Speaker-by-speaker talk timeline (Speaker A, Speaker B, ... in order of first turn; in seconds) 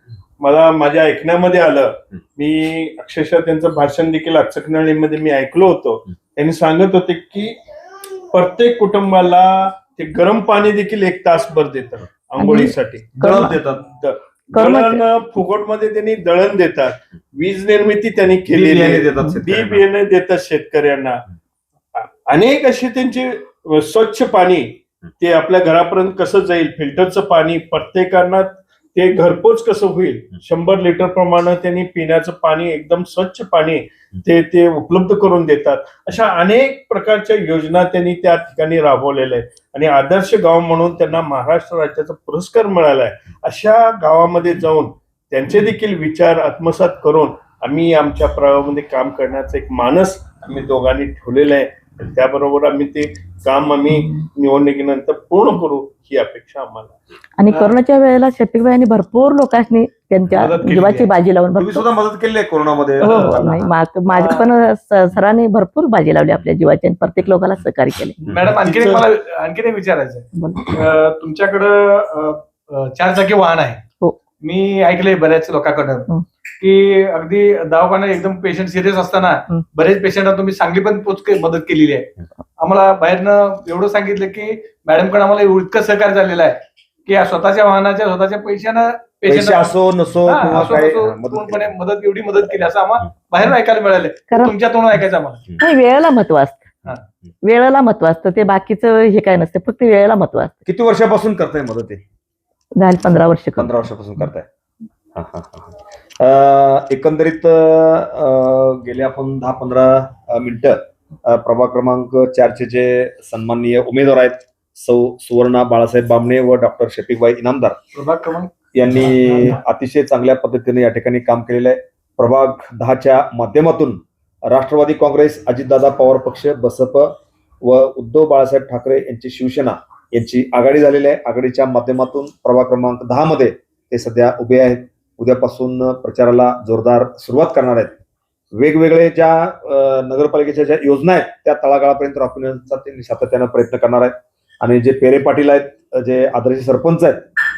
Speaker A: 0.4-7.6, 8.3-13.2, 13.9-21.2, 22.0-57.0, 68.5-69.0
Speaker B: 12.4-13.6, 14.5-15.0, 53.9-54.2, 57.4-61.9, 63.0-68.2, 70.3-70.8, 95.6-96.7, 97.4-100.6, 102.8-103.7
Speaker C: 13.2-13.8, 18.5-19.8, 61.6-63.7, 89.3-91.7, 100.7-102.0, 103.6-104.5, 105.2-117.8, 118.7-138.0, 138.5-147.2
Speaker D: 57.5-57.8, 60.3-61.1, 63.0-63.3, 64.1-64.5, 68.3-73.8, 74.4-76.1, 76.6-89.7, 90.2-95.4, 117.9-119.6